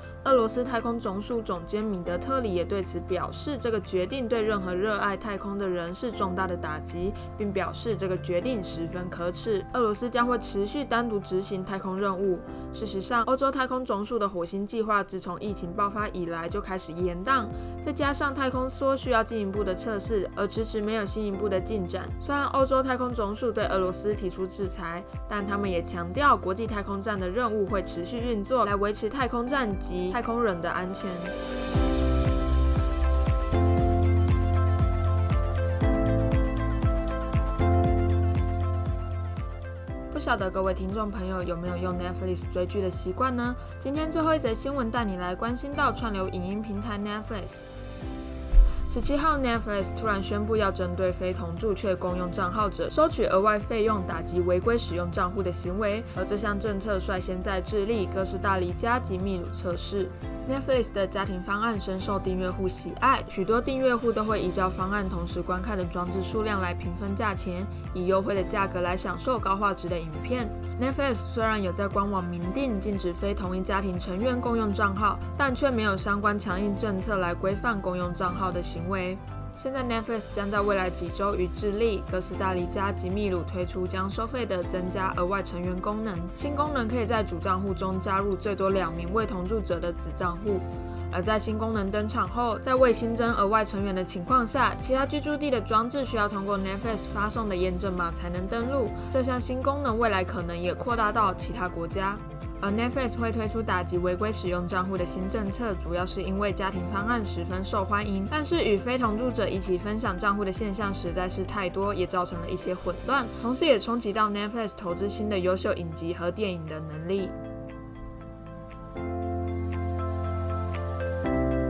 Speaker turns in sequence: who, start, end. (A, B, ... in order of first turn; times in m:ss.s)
0:00.2-0:31.3 A
0:40.1-0:47.7 A
0:48.9-1:57.4 A